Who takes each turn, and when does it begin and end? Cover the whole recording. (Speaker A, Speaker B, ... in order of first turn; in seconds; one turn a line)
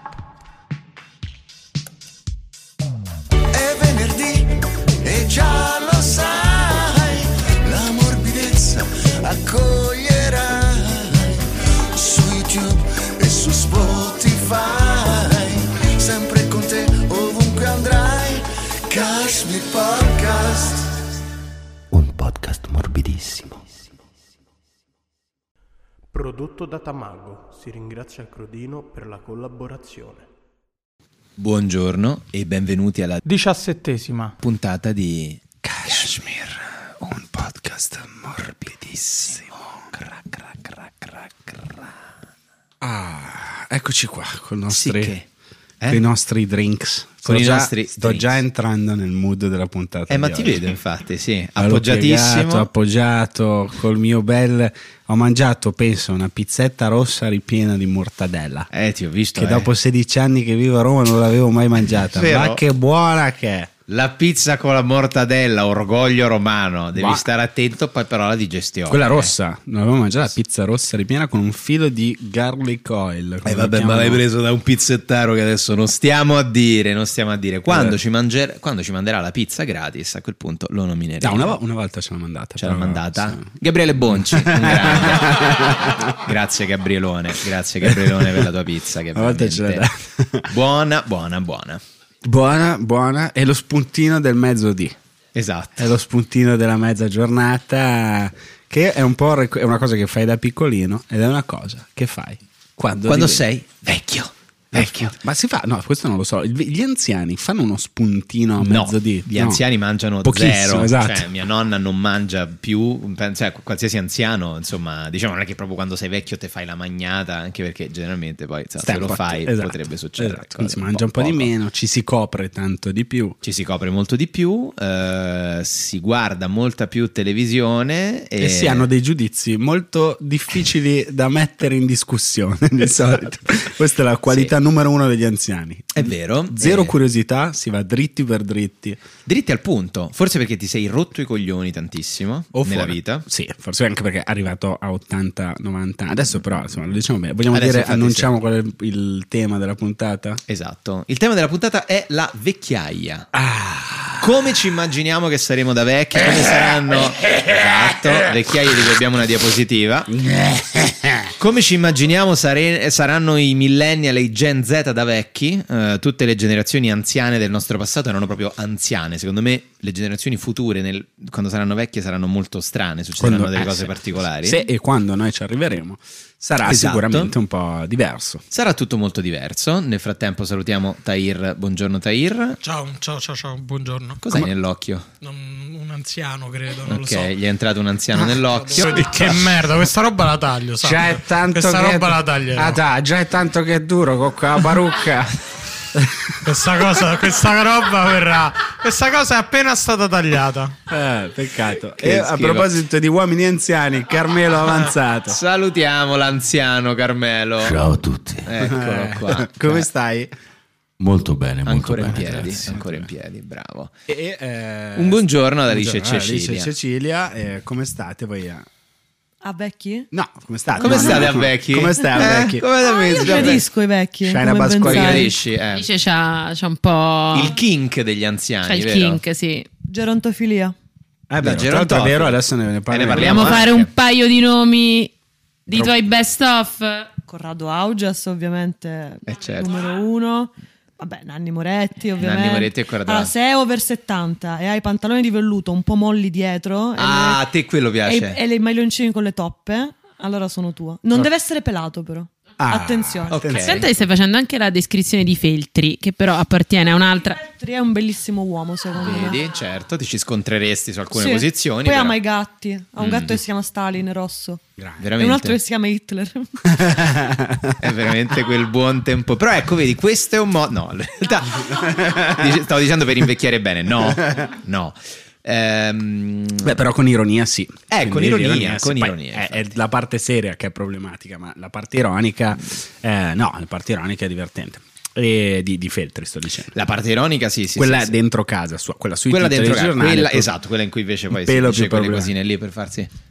Speaker A: 3.5-21.0
Speaker B: 21.9-23.6
Speaker C: 26.1-30.3
Speaker D: 31.4-33.2
Speaker E: 33.2-34.4
Speaker D: 34.4-36.4
Speaker F: 35.6-40.0
Speaker D: 39.9-41.9
Speaker F: 42.8-45.1
Speaker D: 44.7-45.3
Speaker D: 45.8-46.0
Speaker F: 45.9-50.7
Speaker D: 47.2-48.4
Speaker D: 50.1-52.7
Speaker F: 51.6-58.7
Speaker D: 58.7-59.7
Speaker F: 59.3-63.7
Speaker D: 62.1-62.6
Speaker D: 63.9-69.3
Speaker F: 66.9-67.2
Speaker F: 68.9-74.2
Speaker D: 73.4-81.5
Speaker F: 77.7-78.0
Speaker F: 81.2-86.2
Speaker D: 82.6-85.7
Speaker D: 86.2-89.9
Speaker F: 87.8-88.5
Speaker F: 89.1-90.5
Speaker D: 90.5-91.8
Speaker F: 92.2-94.9
Speaker D: 95.3-95.8
Speaker F: 95.8-103.5
Speaker D: 103.0-105.1
Speaker F: 104.7-109.6
Speaker D: 108.6-121.5
Speaker F: 110.2-111.3
Speaker F: 118.8-123.3
Speaker D: 123.4-128.9
Speaker F: 128.4-139.0
Speaker D: 135.9-136.9
Speaker D: 139.2-143.2
Speaker F: 142.5-150.4
Speaker D: 147.5-148.3
Speaker D: 150.5-153.3
Speaker F: 153.3-154.5
Speaker D: 154.2-160.1
Speaker F: 160.1-161.3
Speaker D: 161.4-174.6
Speaker F: 173.2-178.4
Speaker D: 176.6-177.3
Speaker D: 178.5-182.6
Speaker E: 182.6-184.2
Speaker D: 184.2-185.1
Speaker E: 185.2-187.3
Speaker D: 186.9-189.4
Speaker E: 188.1-192.8
Speaker F: 190.8-196.9
Speaker E: 196.4-200.8
Speaker F: 200.9-205.4
Speaker D: 202.0-202.7
Speaker D: 205.3-209.8
Speaker A: 207.7-208.2
Speaker B: 207.7-208.1
Speaker F: 208.6-210.3
Speaker B: 211.4-211.9
Speaker D: 211.6-213.9
Speaker A: 211.7-212.1
Speaker F: 212.1-213.1
Speaker F: 214.1-218.7
Speaker D: 214.9-216.7
Speaker G: 219.4-220.1
Speaker F: 220.1-222.6
Speaker G: 220.8-221.4
Speaker D: 220.8-223.6
Speaker G: 222.8-225.3
Speaker F: 223.2-223.6
Speaker F: 224.2-225.3
Speaker D: 224.8-225.8
Speaker H: 225.7-227.5
Speaker D: 227.3-229.2
Speaker H: 228.6-229.7
Speaker G: 229.9-230.7
Speaker F: 231.3-233.7
Speaker D: 231.4-233.9
Speaker H: 233.1-235.1
Speaker H: 235.7-237.1
Speaker F: 235.7-235.9
Speaker G: 237.2-247.4
Speaker D: 239.2-239.9
Speaker D: 242.2-243.3
Speaker D: 246.9-248.4
Speaker G: 248.0-253.4
Speaker F: 252.6-253.8
Speaker D: 253.3-253.9
Speaker H: 253.6-257.4
Speaker G: 257.1-259.4
Speaker D: 259.0-262.2
Speaker G: 261.1-264.6
Speaker D: 263.0-263.3
Speaker F: 264.8-265.0
Speaker D: 265.0-265.6
Speaker G: 265.1-266.8
Speaker F: 266.7-267.8
Speaker D: 267.8-276.8
Speaker F: 271.8-272.4
Speaker F: 274.1-274.3
Speaker F: 276.6-286.7
Speaker D: 277.9-279.7
Speaker D: 286.7-288.2
Speaker F: 287.8-290.5
Speaker D: 289.3-293.1
Speaker F: 291.3-292.3